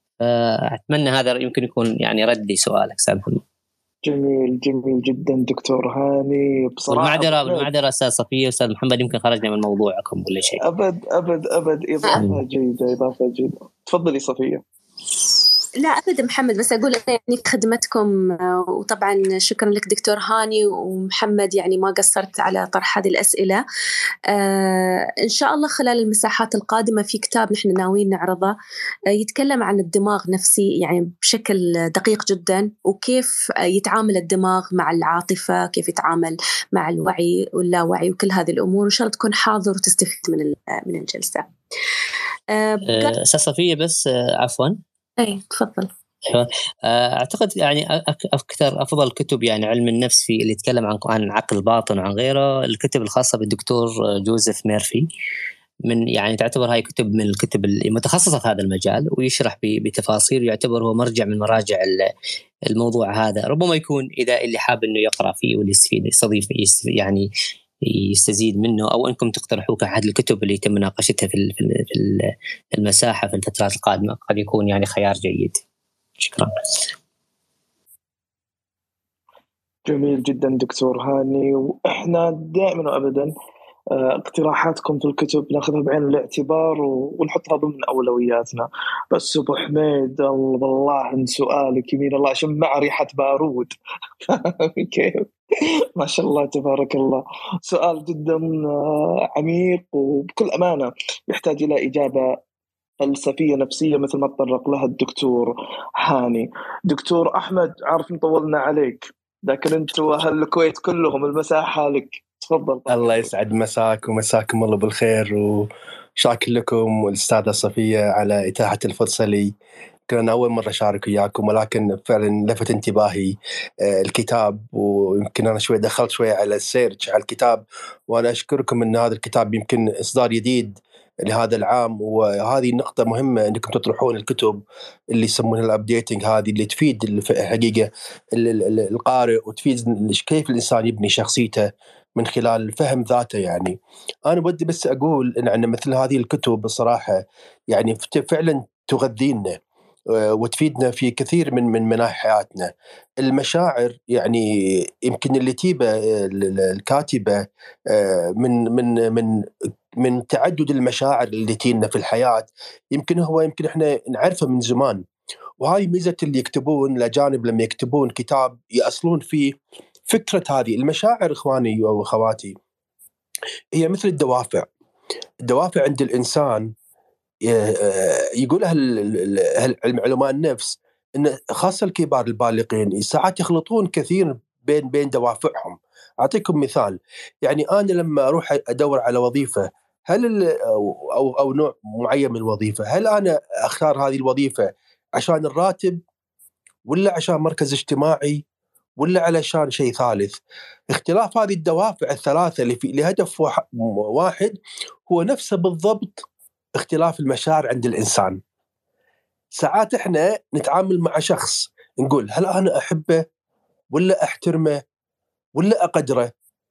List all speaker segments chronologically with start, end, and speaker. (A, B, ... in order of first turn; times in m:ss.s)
0:00.2-0:03.4 A
0:04.0-0:07.7 B
0:06.9-0:10.6 A
0:10.6-0:14.6 B
0:15.8-0:23.6 C
0:24.3-0:28.5 C
0:29.1-0:41.4 C
0:42.5-0:43.1 C
0:42.9-0:44.8 A
0:45.2-0:45.9 C
0:46.3-0:55.0 A
0:55.9-1:02.0 A
1:02.7-1:07.3 A
1:07.9-1:15.6 A
1:16.2-1:16.5 A
1:19.8-1:23.3 B
1:23.9-1:33.7 B
1:34.2-1:35.3 B
1:36.0-1:42.4 B
1:43.0-1:53.3 B
1:52.9-1:59.5 D
2:00.1-2:14.6 D
2:15.1-2:29.6 D
2:30.2-2:39.4 D
2:40.0-2:45.0 D
2:45.6-2:49.6 D
2:50.1-2:52.6 D
2:53.8-2:54.7 D
2:55.4-2:56.7 D
2:57.4-3:16.0 D
3:16.8-3:18.4 D
3:19.0-3:20.4 D
3:20.9-3:26.2 D
3:26.8-3:28.4 D
3:29.6-3:33.2 D
3:33.9-3:34.8 D
3:35.6-3:36.3 D